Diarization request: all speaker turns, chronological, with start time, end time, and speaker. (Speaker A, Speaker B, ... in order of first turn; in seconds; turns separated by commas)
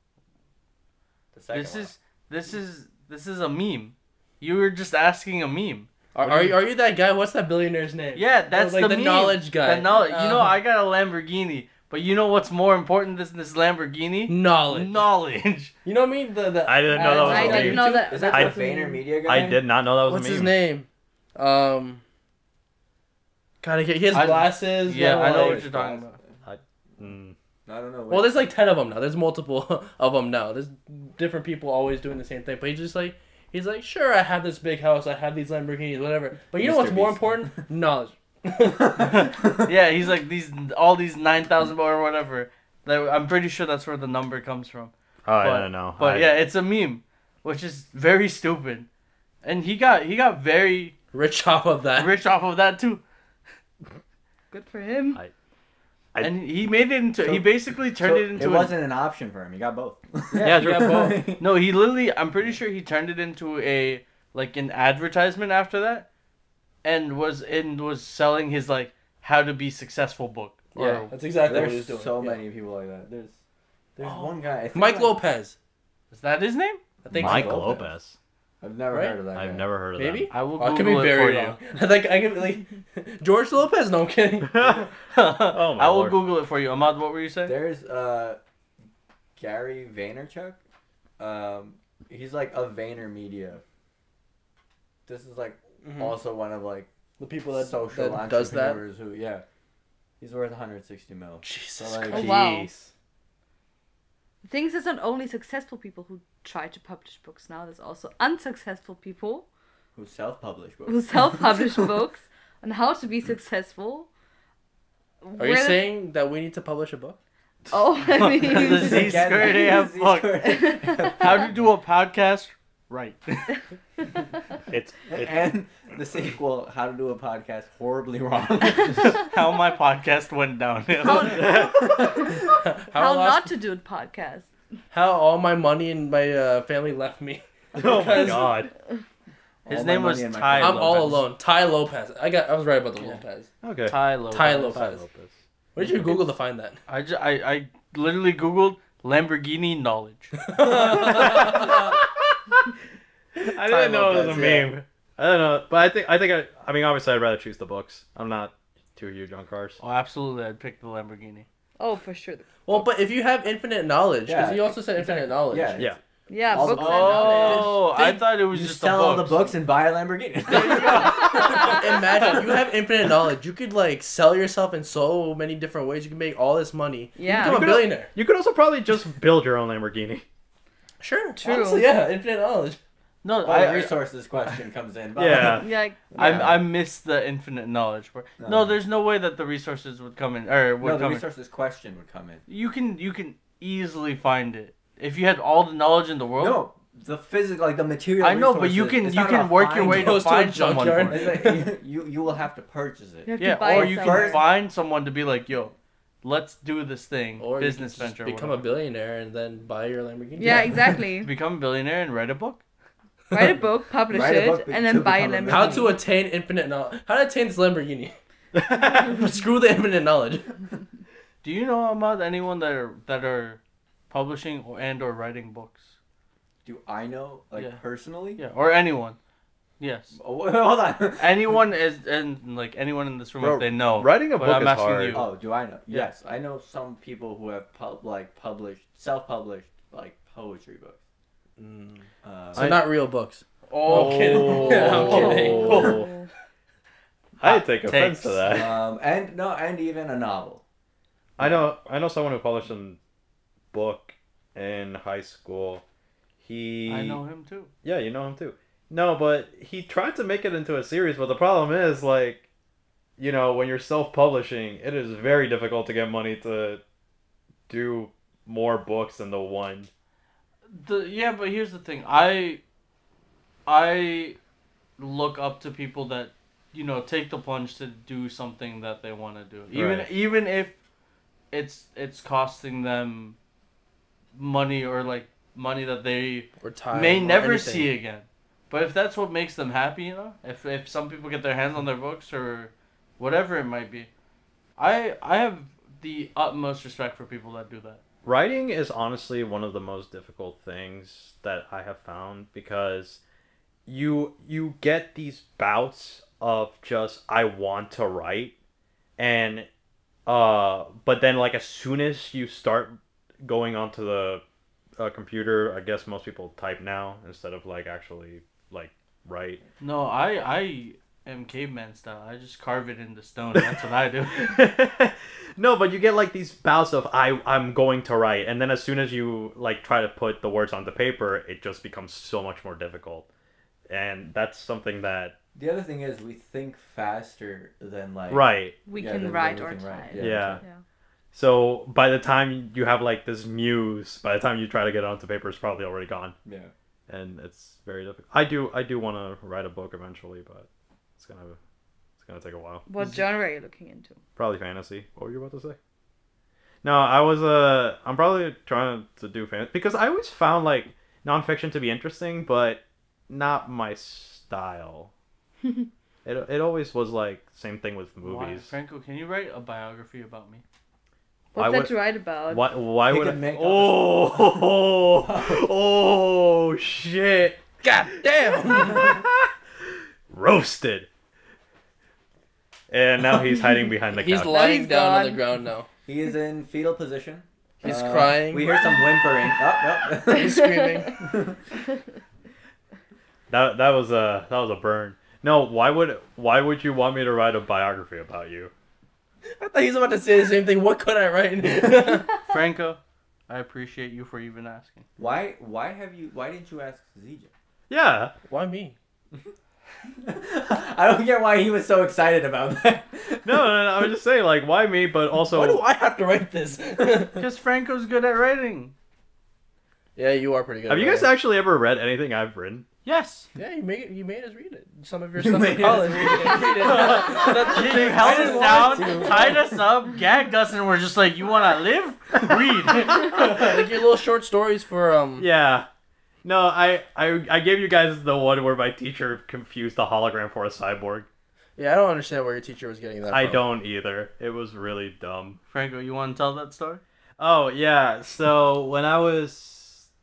Speaker A: 1.3-1.9, Speaker B: 1.5-5.9, Speaker C: 6.1-10.6, Speaker D: 6.2-6.5, Speaker B: 8.1-15.7, Speaker C: 14.3-15.0, Speaker C: 15.8-17.9, Speaker D: 16.6-18.6, Speaker E: 16.9-19.1, Speaker A: 17.0-19.6, Speaker D: 19.2-20.5, Speaker C: 20.0-22.0, Speaker C: 23.6-25.7, Speaker B: 24.1-26.2, Speaker A: 25.1-26.2, Speaker D: 26.4-27.3, Speaker A: 27.6-28.4, Speaker C: 28.1-39.3, Speaker A: 36.6-37.5, Speaker A: 38.9-39.5, Speaker B: 39.0-48.9, Speaker D: 45.2-46.4, Speaker B: 49.4-51.0, Speaker C: 51.1-52.1, Speaker B: 51.9-53.0, Speaker E: 54.5-55.2, Speaker B: 56.2-58.8, Speaker A: 57.2-61.5, Speaker C: 60.3-61.2, Speaker D: 60.4-61.2, Speaker B: 61.4-66.1, Speaker B: 66.8-71.1, Speaker C: 70.7-72.4, Speaker A: 71.4-73.3, Speaker A: 74.0-75.2, Speaker B: 74.0-74.3, Speaker C: 74.7-75.5, Speaker B: 76.1-76.8, Speaker C: 77.0-77.8, Speaker A: 77.1-77.9, Speaker D: 77.1-78.2, Speaker A: 78.6-79.6, Speaker C: 78.9-79.2, Speaker D: 79.3-80.3, Speaker C: 80.0-84.7, Speaker B: 80.3-81.6, Speaker D: 84.4-84.9, Speaker B: 85.1-87.5, Speaker D: 85.5-86.2, Speaker A: 87.4-88.4, Speaker A: 89.4-90.6, Speaker A: 91.2-93.6, Speaker A: 95.1-96.9, Speaker C: 95.8-96.2, Speaker C: 97.2-98.8, Speaker A: 97.5-99.4, Speaker A: 100.2-102.5, Speaker C: 101.4-102.4, Speaker E: 102.1-102.7, Speaker D: 102.2-102.9, Speaker E: 104.4-109.5, Speaker A: 109.9-111.9, Speaker E: 110.9-114.1, Speaker E: 115.2-115.9, Speaker C: 115.4-117.2, Speaker E: 117.7-119.3, Speaker B: 118.2-120.4, Speaker A: 118.6-121.5, Speaker E: 120.4-121.3, Speaker B: 121.2-123.5, Speaker D: 124.7-125.4, Speaker A: 125.1-129.2, Speaker B: 128.9-131.4, Speaker E: 131.0-134.5, Speaker D: 131.1-132.3, Speaker C: 132.7-133.5, Speaker C: 134.9-138.6, Speaker D: 137.8-138.7, Speaker A: 139.7-141.2, Speaker B: 139.7-141.2, Speaker C: 140.6-143.5, Speaker D: 143.6-144.0, Speaker B: 143.9-145.0, Speaker C: 144.3-145.0, Speaker D: 144.6-146.2, Speaker C: 145.7-146.8, Speaker B: 146.9-150.3, Speaker C: 150.5-151.8, Speaker D: 150.7-152.6, Speaker A: 150.8-151.9, Speaker D: 153.4-159.8, Speaker C: 153.6-154.6, Speaker A: 154.0-154.7, Speaker B: 159.8-161.4, Speaker E: 161.8-162.5, Speaker C: 162.7-165.8, Speaker A: 164.2-167.8, Speaker E: 166.3-168.2, Speaker B: 166.6-169.5, Speaker A: 168.5-171.8, Speaker B: 170.5-171.5, Speaker E: 171.2-171.8, Speaker C: 171.5-178.1, Speaker E: 177.2-177.7, Speaker D: 177.3-180.2, Speaker C: 181.0-182.8, Speaker E: 181.3-181.9, Speaker B: 183.2-183.9, Speaker A: 183.4-186.6, Speaker D: 185.2-185.7, Speaker E: 185.5-186.4, Speaker B: 186.1-191.2, Speaker A: 188.4-188.8, Speaker A: 190.8-192.4, Speaker B: 192.5-196.7, Speaker A: 196.4-200.2, Speaker B: 198.2-201.2, Speaker C: 199.8-201.7, Speaker A: 200.9-204.5, Speaker E: 203.2-204.4, Speaker B: 203.4-208.7, Speaker C: 207.4-211.0, Speaker E: 210.4-211.3, Speaker B: 211.2-212.6, Speaker E: 213.3-215.9, Speaker A: 214.1-215.9, Speaker C: 215.5-218.2, Speaker D: 218.6-219.1, Speaker C: 218.7-220.5, Speaker B: 221.4-225.9, Speaker A: 226.6-228.4, Speaker B: 227.6-227.8, Speaker B: 228.3-229.2, Speaker B: 229.8-230.2, Speaker A: 230.2-231.3, Speaker B: 231.2-235.3, Speaker D: 233.4-235.2, Speaker A: 235.1-241.0, Speaker C: 241.6-245.9, Speaker A: 242.2-242.7, Speaker D: 242.6-242.8, Speaker B: 243.7-246.0, Speaker D: 243.9-246.1, Speaker A: 244.5-245.8, Speaker E: 245.1-246.3, Speaker D: 247.4-248.7, Speaker B: 247.4-248.6, Speaker A: 248.5-250.6, Speaker D: 251.4-253.0, Speaker D: 253.7-255.8, Speaker D: 256.4-257.2, Speaker B: 256.9-257.7, Speaker D: 257.8-262.4, Speaker D: 263.2-266.8, Speaker D: 267.7-269.9, Speaker B: 270.7-272.6, Speaker B: 273.6-274.4, Speaker B: 275.0-280.8, Speaker D: 279.7-280.1, Speaker B: 281.5-283.4, Speaker B: 284.3-294.1, Speaker C: 286.6-287.9, Speaker B: 294.8-298.0, Speaker D: 298.2-303.2, Speaker D: 303.9-308.5, Speaker D: 309.2-309.7, Speaker D: 310.2-314.4, Speaker D: 315.0-319.6, Speaker B: 319.8-324.5, Speaker D: 323.5-333.3, Speaker D: 333.9-335.4, Speaker A: 335.5-340.6, Speaker D: 338.3-338.8, Speaker E: 338.9-340.8, Speaker D: 340.1-340.6, Speaker D: 341.3-346.4, Speaker A: 346.4-346.7, Speaker D: 347.1-351.6, Speaker D: 352.2-352.9, Speaker E: 352.9-354.2, Speaker D: 354.4-355.8, Speaker D: 356.8-365.1, Speaker D: 366.2-368.7, Speaker B: 368.2-370.6, Speaker E: 371.5-372.7, Speaker D: 371.5-371.9, Speaker D: 372.4-381.1, Speaker A: 373.1-374.6, Speaker A: 375.2-375.6, Speaker C: 377.8-379.2, Speaker D: 382.9-384.7, Speaker C: 384.1-385.9, Speaker E: 384.4-385.4, Speaker A: 386.1-390.7, Speaker C: 387.8-388.8, Speaker C: 390.3-391.2, Speaker A: 391.2-391.6, Speaker D: 393.5-398.7, Speaker C: 399.6-402.4, Speaker B: 402.4-405.0, Speaker A: 405.2-407.5, Speaker D: 407.9-408.3, Speaker C: 408.5-408.9, Speaker A: 410.2-413.7, Speaker D: 413.4-415.8, Speaker C: 415.4-417.4, Speaker B: 417.3-418.9, Speaker C: 420.1-421.3, Speaker D: 420.9-422.9, Speaker B: 423.0-423.5, Speaker C: 423.5-429.5, Speaker A: 425.4-429.8, Speaker B: 426.9-433.6, Speaker D: 426.9-428.6, Speaker C: 433.1-435.5, Speaker D: 435.4-435.9, Speaker D: 436.4-441.3, Speaker C: 441.8-443.6, Speaker D: 443.3-445.6, Speaker B: 445.7-447.0, Speaker D: 447.4-450.1